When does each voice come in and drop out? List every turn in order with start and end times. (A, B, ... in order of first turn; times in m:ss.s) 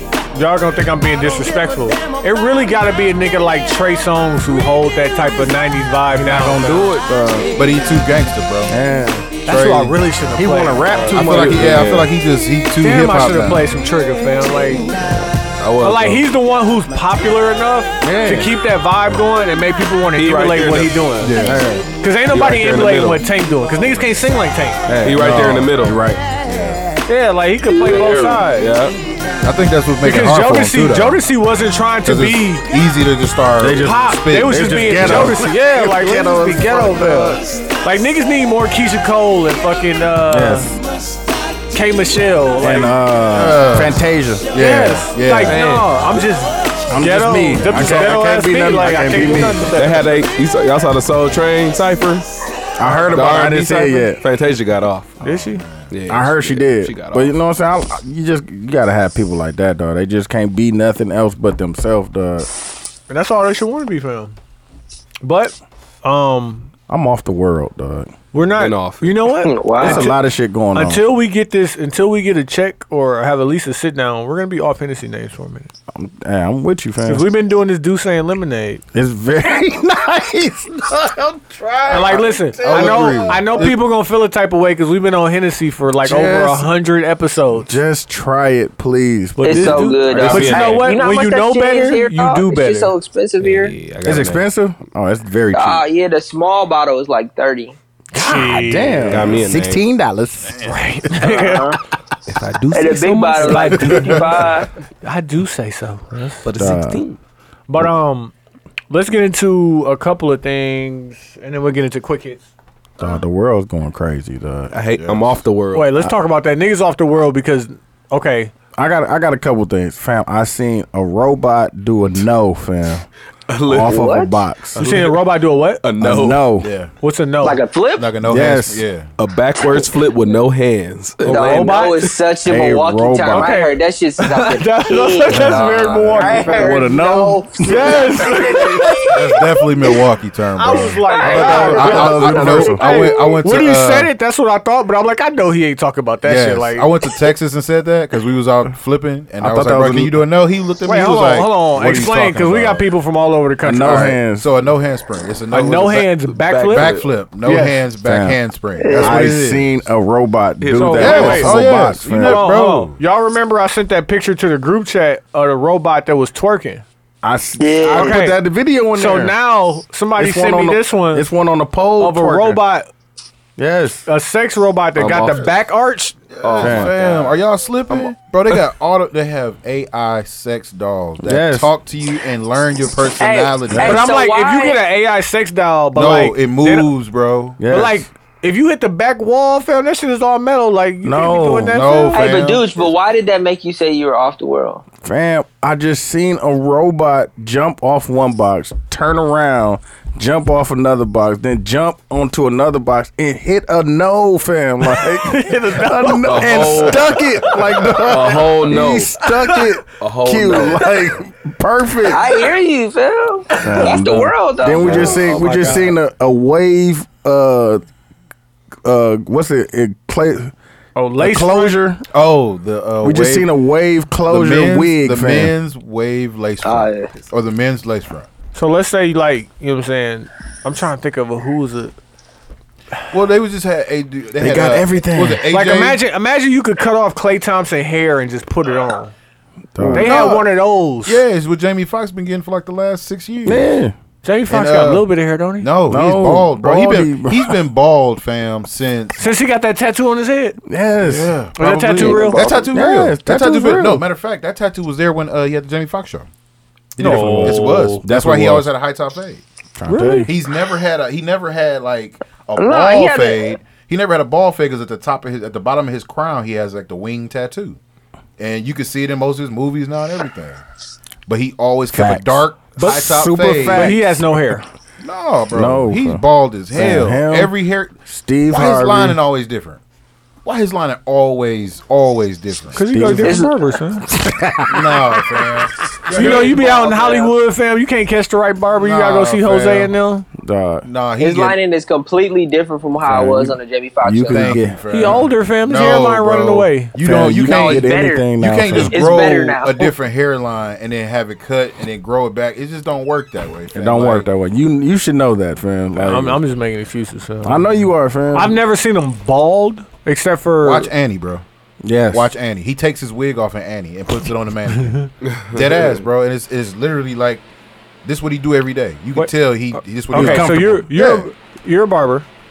0:00.3-0:06.9 A
0:06.2-0:07.6 B
0:07.5-0:08.7 C
0:08.7-0:09.3 B
0:09.4-0:11.5 A
0:09.5-0:10.0 C
0:10.3-0:12.1 B
0:11.1-0:13.8 C
0:11.3-0:12.1 D
0:12.8-0:15.0 A
0:15.6-0:16.2 D
0:15.8-0:21.4 A
0:18.0-0:18.5 B
0:20.1-0:21.0 D
0:21.2-0:21.6 C
0:21.3-0:21.9 B
0:22.0-0:24.9 A
0:22.3-0:23.2 D
0:24.9-0:26.3 B
0:24.9-0:26.0 D
0:25.2-0:25.6 C
0:26.4-0:26.8 C
0:27.1-0:28.7 A
0:27.7-0:29.0 D
0:29.4-0:31.2 C
0:30.0-0:32.7 A
0:32.0-0:35.4 C
0:33.6-0:37.4 B
0:33.7-0:40.7 A
0:40.3-0:40.8 B
0:41.7-0:43.0 A
0:42.6-0:44.5 B
0:43.3-0:44.0 C
0:44.5-0:45.7 C
0:44.5-0:50.2 A
0:45.4-0:46.0 D
0:46.9-0:49.8 B
0:49.7-0:52.2 D
0:52.8-0:54.2 B
0:52.8-0:53.4 C
0:53.1-0:55.2 D
0:55.2-0:55.6 A
0:55.2-0:55.9 C
0:55.9-0:57.3 D
0:56.1-1:02.5 B
1:03.1-1:04.4 A
1:05.2-1:06.7 A
1:06.9-1:08.1 B
1:08.3-1:10.1 A
1:08.6-1:09.1 D
1:09.4-1:10.1 E
1:09.8-1:11.0 B
1:10.7-1:15.7 A
1:15.9-1:17.3 B
1:17.0-1:18.8 A
1:18.9-1:23.7 B
1:21.9-1:27.8 A
1:22.6-1:23.8 C
1:26.0-1:26.7 B
1:27.6-1:30.4 B
1:29.4-1:32.9 A
1:29.4-1:33.7 E
1:30.0-1:31.0 D
1:30.1-1:30.5 C
1:33.4-1:34.4 D
1:34.0-1:35.8 B
1:35.5-1:37.8 E
1:38.1-1:39.2 A
1:38.1-1:40.6 B
1:39.0-1:39.8 D
1:40.4-1:40.8 C
1:40.6-1:41.8 A
1:41.2-1:41.8 E
1:42.3-1:44.1 D
1:42.7-1:44.7 E
1:43.4-1:44.4 A
1:43.9-1:44.5 C
1:45.0-1:46.4 A
1:46.4-1:47.2 D
1:46.6-1:47.0 B
1:47.7-1:48.3 A
1:48.9-1:52.4 A
1:53.0-1:54.7 B
1:54.7-1:56.0 D
1:54.9-1:55.4 C
1:55.7-1:58.5 A
1:58.8-2:03.0 B
2:03.5-2:04.0 D
2:03.6-2:04.8 B
2:03.8-2:04.4 E
2:04.8-2:05.2 D
2:04.8-2:05.8 A
2:05.8-2:06.5 D
2:06.0-2:06.7 B
2:06.6-2:06.9 C
2:07.0-2:07.6 A
2:07.4-2:08.1 E
2:08.0-2:09.1 C
2:08.2-2:08.8 B
2:09.2-2:12.1 D
2:11.2-2:19.1 E
2:11.2-2:12.1 A
2:12.4-2:13.6 B
2:13.3-2:16.8 A
2:15.3-2:18.8 B
2:17.6-2:19.9 A
2:19.1-2:24.1 C
2:20.6-2:27.2 A
2:21.1-2:22.0 E
2:21.2-2:23.1 B
2:26.2-2:32.8 C
2:29.4-2:30.2 B
2:30.8-2:34.2 A
2:33.6-2:34.5 B
2:33.8-2:36.1 C
2:35.5-2:37.8 A
2:36.3-2:37.1 D
2:36.7-2:39.8 C
2:38.0-2:38.4 B
2:38.8-2:39.2 E
2:38.9-2:42.5 B
2:40.6-2:41.5 D
2:40.8-2:41.6 A
2:41.0-2:43.0 C
2:42.2-2:46.8 A
2:47.2-2:49.3 B
2:47.6-2:48.2 E
2:47.9-2:48.4 A
2:48.9-2:51.3 A
2:50.2-2:52.6 B
2:52.0-2:52.9 A
2:53.6-2:54.0 B
2:54.0-2:56.2 A
2:55.0-2:55.5 D
2:56.3-3:04.1 C
2:56.4-2:57.4 D
2:56.6-2:56.9 B
2:57.9-2:58.6 D
3:01.2-3:01.7 B
3:03.2-3:04.8 E
3:03.7-3:04.0 B
3:03.8-3:06.9 A
3:05.9-3:07.6 C
3:07.6-3:08.0 B
3:07.7-3:12.3 A
3:11.0-3:11.9 B
3:11.7-3:12.9 C
3:12.1-3:14.8 E
3:15.0-3:32.3 B
3:24.8-3:28.2 A
3:26.2-3:27.2 D
3:28.0-3:29.2 D
3:29.2-3:29.6 A
3:30.0-3:31.0 D
3:32.0-3:35.5 E
3:33.6-3:37.8 B
3:34.8-3:35.9 A
3:34.9-3:35.1 D
3:38.8-3:40.5 B
3:41.0-3:41.8 A
3:41.2-3:42.0 B
3:42.1-3:43.5 C
3:43.0-3:45.5 B
3:44.3-3:48.3 C
3:46.6-3:47.1 E
3:48.5-3:51.9 A
3:53.1-3:56.0 C
3:54.4-3:55.4 B
3:55.5-3:59.1 A
3:59.7-4:00.2 B
3:59.8-4:00.5 C
3:59.9-4:01.2 A
4:01.0-4:03.7 C
4:03.4-4:04.0 B
4:04.2-4:05.7 A
4:04.5-4:05.1 C
4:05.6-4:09.3 C
4:05.9-4:07.6 B
4:09.2-4:10.6 A
4:10.7-4:11.4 B
4:11.0-4:16.3 C
4:11.6-4:12.5 A
4:12.0-4:14.0 B
4:17.0-4:19.4 C
4:17.0-4:17.9 A
4:17.0-4:18.7 B
4:17.4-4:18.0 D
4:19.8-4:20.3 B
4:19.9-4:20.3 A
4:20.2-4:27.8 C
4:22.6-4:23.6 E
4:28.4-4:30.6 C
4:31.2-4:34.0 C
4:31.9-4:34.3 B
4:32.8-4:34.7 A
4:35.0-4:38.0 C
4:35.5-4:37.5 B
4:38.1-4:39.2 B
4:38.5-4:39.8 C
4:40.4-4:42.8 C
4:42.7-4:44.0 A
4:42.8-4:43.5 B
4:43.2-4:43.6 E
4:44.1-4:45.5 B
4:44.7-4:46.7 C
4:46.1-4:50.3 A
4:46.1-4:47.3 E
4:48.8-4:49.9 C
4:50.4-4:50.8 B
4:50.8-4:51.6 C
4:51.2-4:54.6 E
4:53.0-4:54.8 B
4:54.3-5:04.3 C
4:54.9-4:56.9 A
4:57.0-4:59.0 B
4:57.4-4:59.9 E
5:03.7-5:06.4 B
5:06.0-5:07.7 A
5:07.4-5:08.6 B
5:08.3-5:10.9 A
5:10.6-5:11.4 C
5:11.8-5:12.3 B
5:12.1-5:17.4 C
5:15.2-5:16.0 D
5:18.0-5:21.3 C
5:19.2-5:22.2 A
5:20.1-5:20.8 B